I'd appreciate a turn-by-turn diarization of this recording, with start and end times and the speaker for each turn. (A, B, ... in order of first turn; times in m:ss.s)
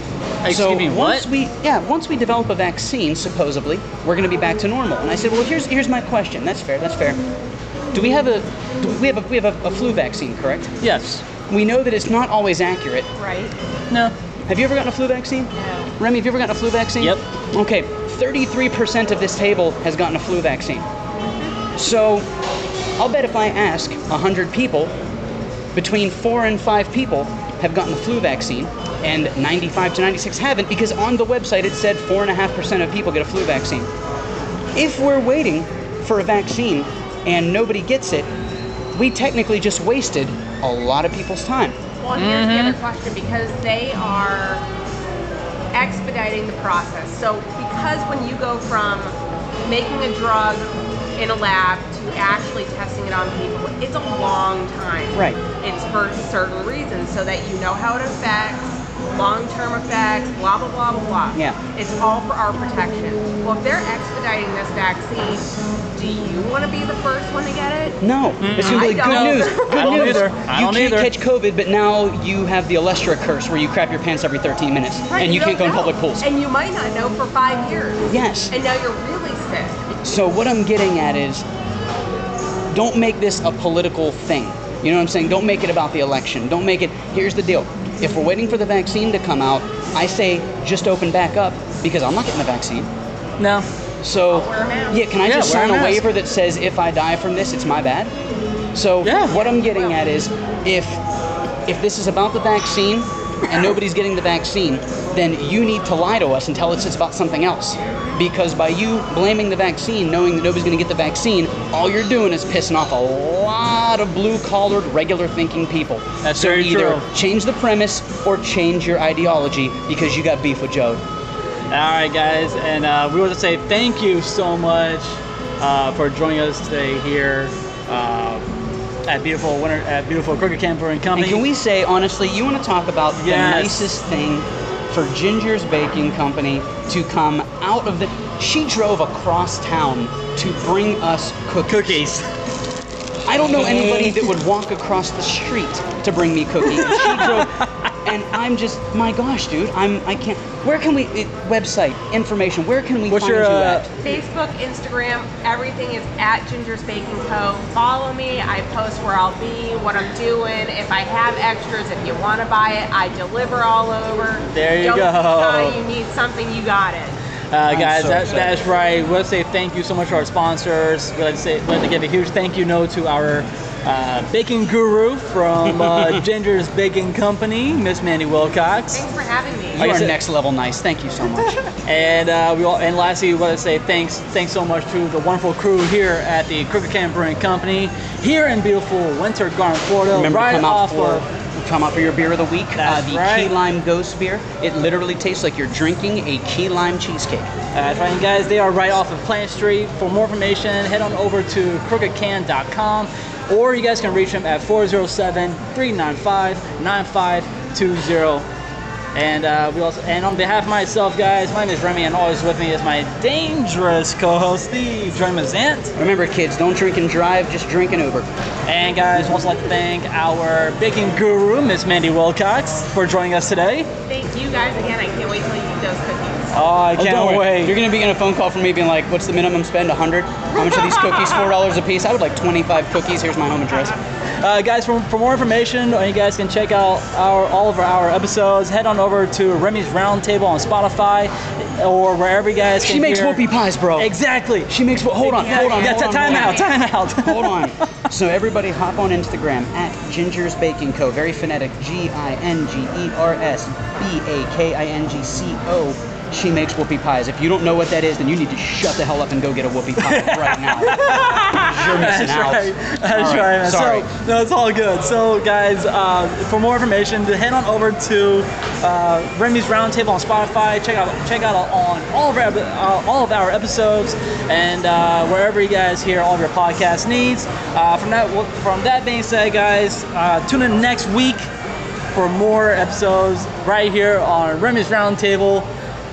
0:00.4-0:01.3 A
0:00.5-0:07.2 B
0:07.9-0:10.7 B
0:10.8-0:11.2 A
0:11.5-0:13.1 B
0:13.2-0:13.6 C
0:14.5-0:20.8 B
0:15.6-0:15.9 C
0:21.8-0:22.3 B
0:23.0-0:24.9 B
0:25.7-0:33.9 B
0:34.7-0:38.3 B
0:38.9-0:41.8 B
0:42.0-0:44.6 C
0:42.2-0:42.8 A
0:45.7-1:08.0 C
0:55.1-0:55.4 B
1:08.0-1:16.3 B
1:08.4-1:11.1 A
1:08.5-1:10.2 C
1:15.1-1:19.9 C
1:18.1-1:18.5 B
1:20.0-1:21.4 B
1:22.7-1:32.9 B
1:33.4-1:33.6 A
1:34.0-1:38.1 B
1:34.3-1:35.1 C
1:35.2-1:36.0 A
1:38.7-1:41.0 B
1:39.0-1:39.3 A
1:39.3-1:40.0 C
1:41.7-2:01.0 B
1:56.2-1:57.0 A
2:01.7-2:08.4 A
2:09.0-2:11.4 A
2:11.1-2:22.1 B
2:13.1-2:13.9 A
2:21.7-2:22.3 A
2:23.3-2:33.9 B
2:23.4-2:24.3 A
2:26.8-2:27.7 A
2:33.1-2:33.9 A
2:34.0-2:47.2 C
2:44.5-2:45.8 A
2:47.5-2:59.0 A
2:47.7-2:48.6 B
2:58.9-2:59.9 C
2:59.8-3:01.6 B
2:59.8-3:00.2 A
3:01.8-3:11.2 A
3:10.1-3:17.5 B
3:12.8-3:13.6 A
3:17.7-3:28.4 A
3:29.1-3:35.9 A
3:36.0-3:38.3 B
3:38.7-3:43.9 A
3:44.1-3:46.6 C
3:46.5-3:47.8 A
3:47.0-3:54.0 B
3:54.4-4:03.4 A
4:02.8-4:04.1 B
4:04.0-4:07.9 A
4:04.7-4:24.1 B
4:06.0-4:06.7 C
4:20.0-4:41.5 A
4:42.1-4:45.7 A